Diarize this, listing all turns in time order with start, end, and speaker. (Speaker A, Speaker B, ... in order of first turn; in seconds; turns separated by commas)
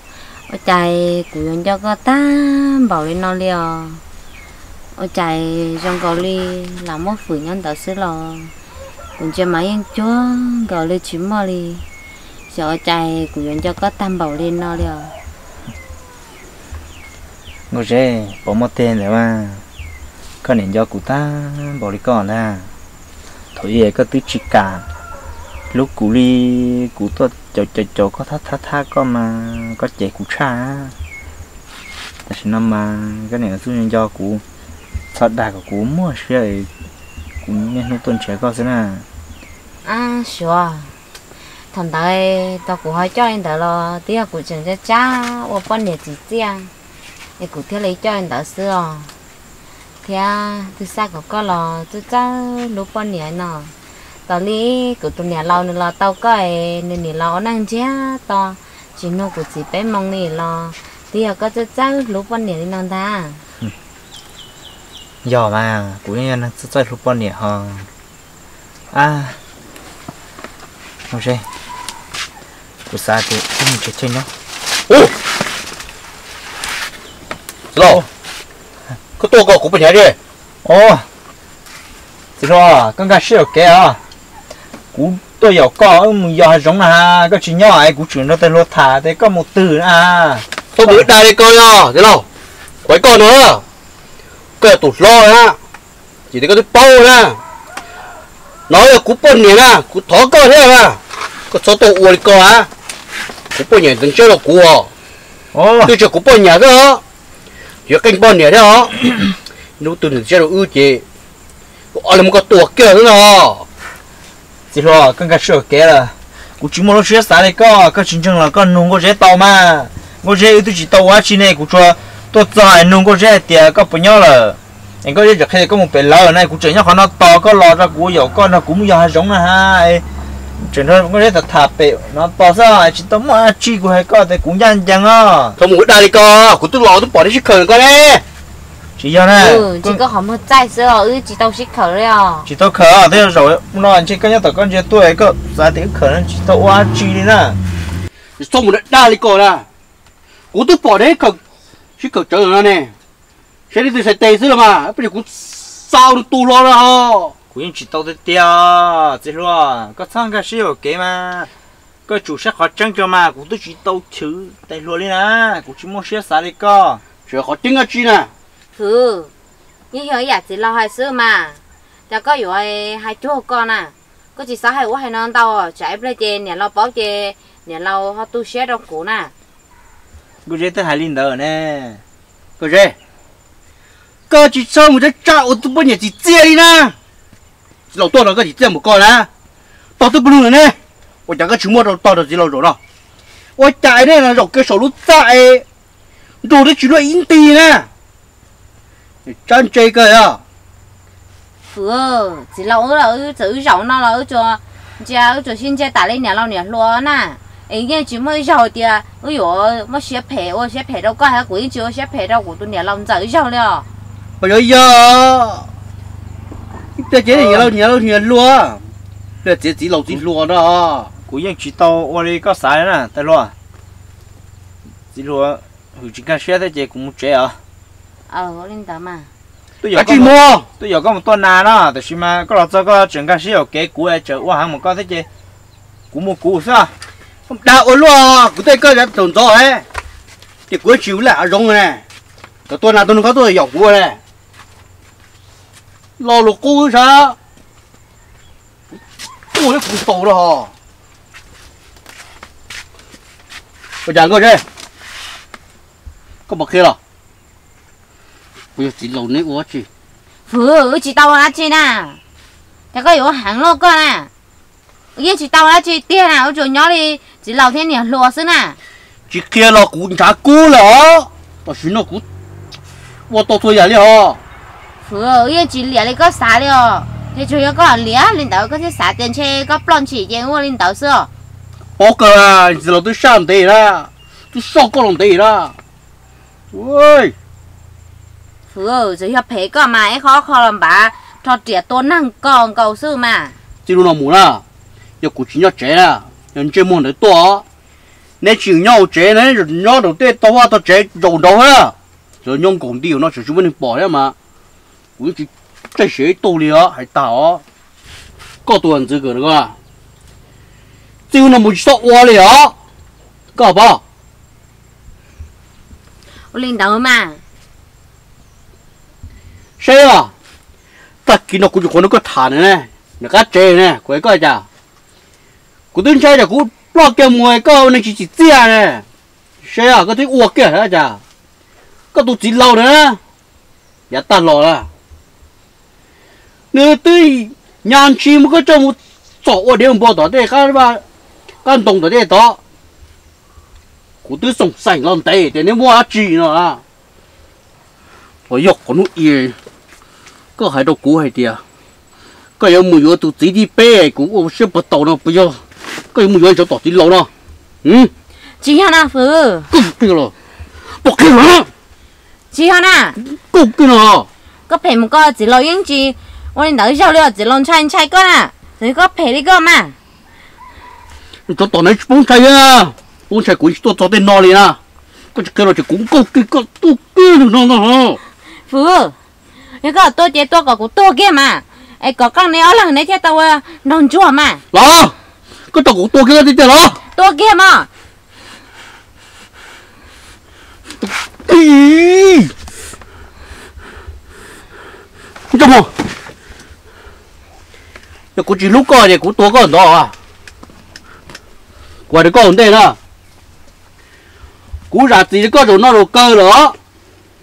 Speaker A: 0.5-4.0, Speaker A: 5.0-8.5, Speaker A: 9.2-11.9, Speaker A: 12.5-15.1, Speaker B: 17.7-19.6, Speaker B: 20.4-22.7, Speaker B: 23.6-24.9, Speaker B: 25.7-30.9, Speaker B: 32.3-34.4, Speaker B: 35.1-36.7, Speaker B: 37.4-39.1, Speaker A: 39.9-40.9, Speaker A: 41.7-46.7, Speaker A: 47.4-49.1, Speaker A: 50.0-53.7, Speaker A: 54.3-63.4, Speaker B: 65.2-67.9, Speaker B: 68.9-69.4, Speaker B: 71.1-71.5, Speaker B: 72.9-74.3, Speaker C: 77.7-78.0, Speaker C: 79.2-80.2, Speaker B: 80.6-81.1, Speaker B: 82.4-84.0, Speaker B: 84.9-91.1, Speaker C: 90.8-92.2, Speaker C: 92.8-93.6, Speaker C: 94.6-95.6, Speaker C: 96.3-97.4, Speaker C: 98.7-101.0, Speaker C: 101.5-102.7, Speaker C: 103.5-104.9, Speaker B: 105.5-105.9, Speaker C: 105.9-107.0, Speaker C: 107.9-109.1, Speaker C: 109.8-111.0, Speaker C: 111.9-113.7, Speaker B: 114.7-130.1, Speaker B: 130.6-135.6, Speaker C: 135.6-138.2, Speaker B: 139.0-140.0, Speaker A: 139.4-142.5, Speaker B: 142.5-147.6, Speaker C: 148.4-149.7, Speaker C: 150.5-151.4, Speaker C: 152.0-152.9, Speaker C: 153.7-157.3, Speaker B: 157.5-161.5, Speaker B: 162.1-167.0, Speaker C: 167.3-168.3, Speaker A: 168.8-169.3, Speaker A: 169.9-179.3, Speaker B: 180.4-182.0, Speaker C: 182.6-182.9, Speaker C: 184.3-186.9, Speaker C: 187.9-189.3, Speaker C: 190.0-190.8, Speaker C: 191.3-192.8, Speaker C: 193.6-195.7, Speaker C: 196.4-197.9, Speaker C: 199.3-200.4, Speaker A: 201.7-213.9, Speaker C: 214.4-215.7, Speaker C: 217.0-218.8, Speaker B: 217.3-217.7, Speaker C: 219.4-221.1, Speaker B: 221.3-223.5, Speaker B: 225.1-227.6, Speaker A: 228.3-229.3, Speaker B: 229.8-235.3, Speaker C: 229.9-230.7, Speaker B: 236.1-236.9, Speaker C: 237.5-239.8, Speaker C: 240.7-242.0, Speaker C: 242.7-244.2, Speaker C: 246.2-247.4, Speaker C: 249.5-250.7, Speaker C: 254.1-254.6, Speaker C: 256.5-257.0, Speaker C: 258.8-259.9, Speaker A: 260.5-262.2, Speaker A: 262.9-264.3, Speaker A: 265.2-268.8, Speaker C: 269.3-272.2, Speaker C: 273.3-274.4, Speaker A: 275.0-281.3, Speaker C: 282.0-285.7, Speaker C: 286.7-287.3, Speaker A: 288.7-293.6, Speaker C: 293.9-294.6, Speaker C: 295.2-297.6, Speaker C: 298.4-304.3, Speaker C: 305.2-307.6, Speaker C: 308.7-309.8, Speaker C: 311.3-312.7, Speaker C: 313.6-314.0, Speaker A: 316.5-317.4, Speaker C: 319.8-320.3, Speaker C: 321.3-324.6, Speaker C: 325.9-329.0, Speaker C: 329.6-331.2, Speaker C: 332.1-333.2, Speaker C: 334.1-334.9, Speaker C: 336.7-341.0, Speaker C: 341.6-342.6, Speaker C: 344.2-346.8, Speaker C: 348.5-349.6, Speaker C: 350.6-351.6, Speaker C: 352.6-355.6, Speaker C: 356.1-357.3, Speaker C: 357.8-358.1, Speaker A: 358.6-359.7, Speaker C: 359.7-360.3, Speaker C: 361.0-361.7, Speaker A: 362.5-363.2, Speaker C: 363.2-364.3, Speaker A: 364.7-369.9, Speaker C: 371.5-374.8, Speaker C: 375.4-378.2, Speaker A: 378.7-379.1, Speaker A: 379.8-384.6, Speaker C: 384.7-385.1, Speaker C: 385.7-387.0, Speaker A: 387.1-387.9, Speaker C: 391.5-392.5, Speaker C: 395.5-395.9, Speaker C: 398.4-400.1, Speaker C: 402.1-403.0, Speaker C: 404.9-406.8